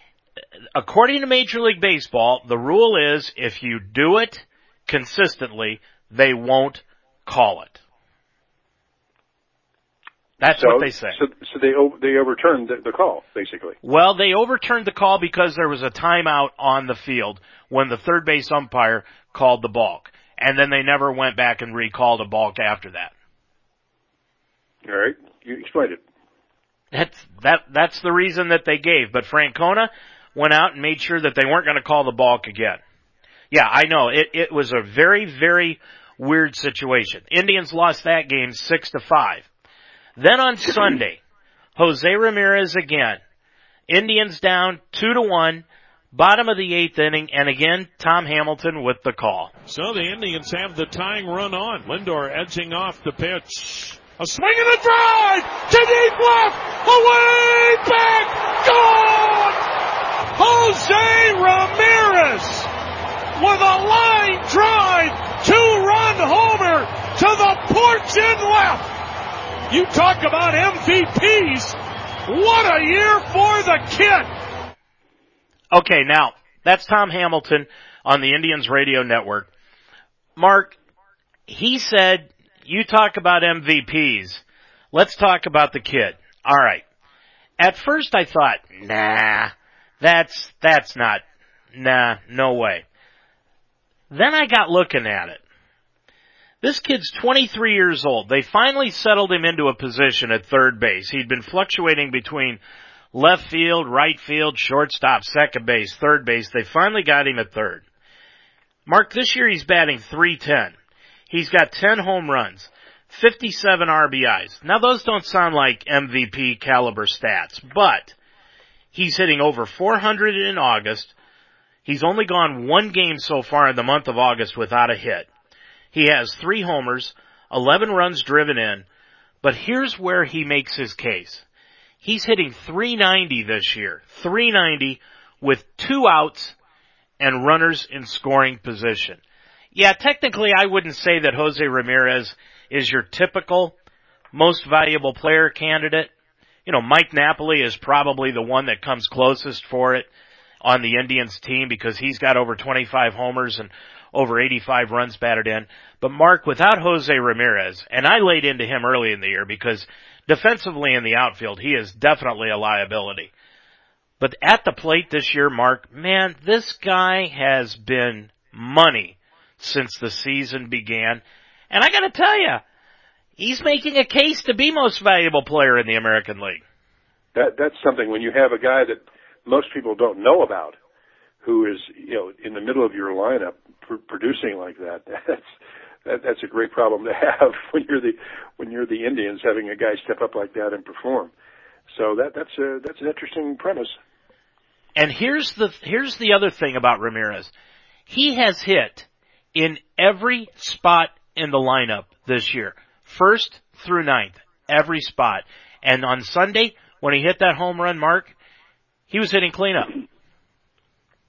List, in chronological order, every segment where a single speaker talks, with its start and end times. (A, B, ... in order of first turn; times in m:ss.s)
0:00.8-0:07.8 A
0:10.4-0:11.2 A
0:10.5-0:13.8 B
0:13.8-0:23.1 A
0:24.8-0:26.0 B
0:26.9-0:32.8 A
0:33.5-0:39.5 A
0:40.2-0:41.2 A
0:41.8-0:43.2 A
0:43.9-0:49.5 A
0:49.7-0:59.6 C
1:00.4-1:02.7 C
1:03.4-1:08.9 C
1:09.7-1:14.3 C
1:15.7-1:19.5 A
1:20.4-1:20.8 A
1:21.5-1:26.8 A
1:27.6-1:31.2 A
1:31.7-1:32.8 A
1:34.1-1:35.4 A
1:36.6-1:42.6 A
1:43.1-1:47.8 A
1:48.9-1:50.7 A
1:51.3-1:58.2 A
1:58.9-2:01.1 A
2:01.8-2:05.3 A
2:05.9-2:08.8 A
2:09.4-2:11.4 A
2:12.0-2:16.6 A
2:17.2-2:19.2 A
2:19.8-2:23.8 A
2:24.3-2:26.1 A
2:26.7-2:30.1 A
2:30.6-2:43.3 A
2:44.2-2:52.6 A
2:53.4-2:56.6 A
2:57.4-3:00.8 B
3:01.4-3:05.5 B
3:06.0-3:11.3 B
3:11.9-3:14.0 B
3:15.0-3:17.5 A
3:18.1-3:28.3 A
3:29.1-3:29.9 A